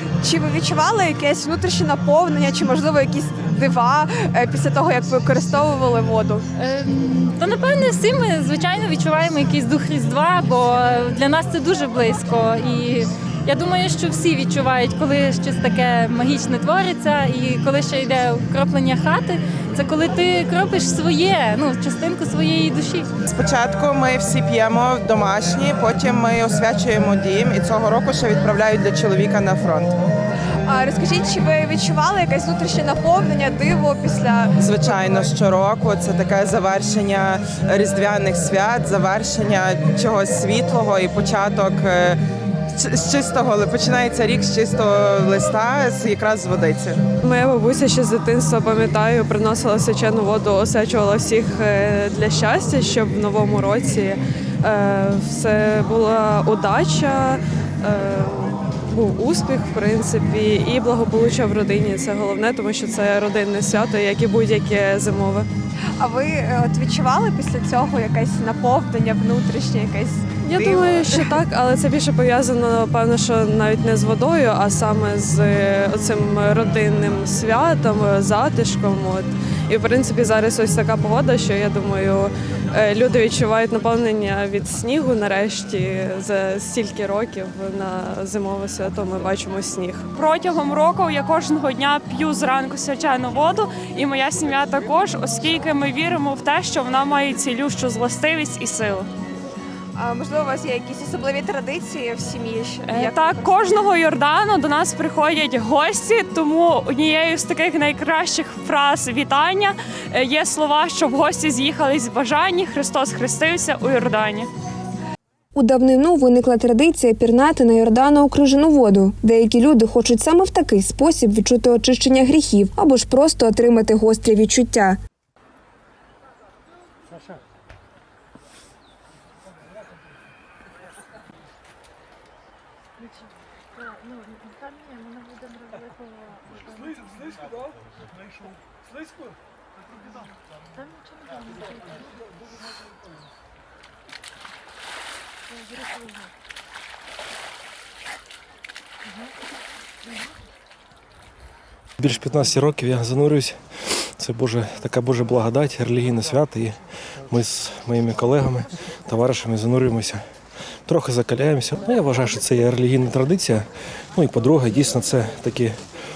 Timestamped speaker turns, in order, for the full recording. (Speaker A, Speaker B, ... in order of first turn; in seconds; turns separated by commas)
Speaker A: 0.3-6.3, Speaker B: 6.6-23.1, Speaker C: 23.3-29.9, Speaker A: 30.7-35.1, Speaker C: 34.6-42.2, Speaker C: 42.7-47.0, Speaker D: 47.2-65.5, Speaker A: 66.0-71.3, Speaker D: 70.4-90.1, Speaker E: 90.1-99.1, Speaker A: 100.0-103.4, Speaker E: 102.8-114.5, Speaker A: 115.5-125.0, Speaker E: 133.8-135.8, Speaker E: 141.2-141.8, Speaker F: 152.0-153.6, Speaker F: 154.2-160.2, Speaker F: 160.9-165.7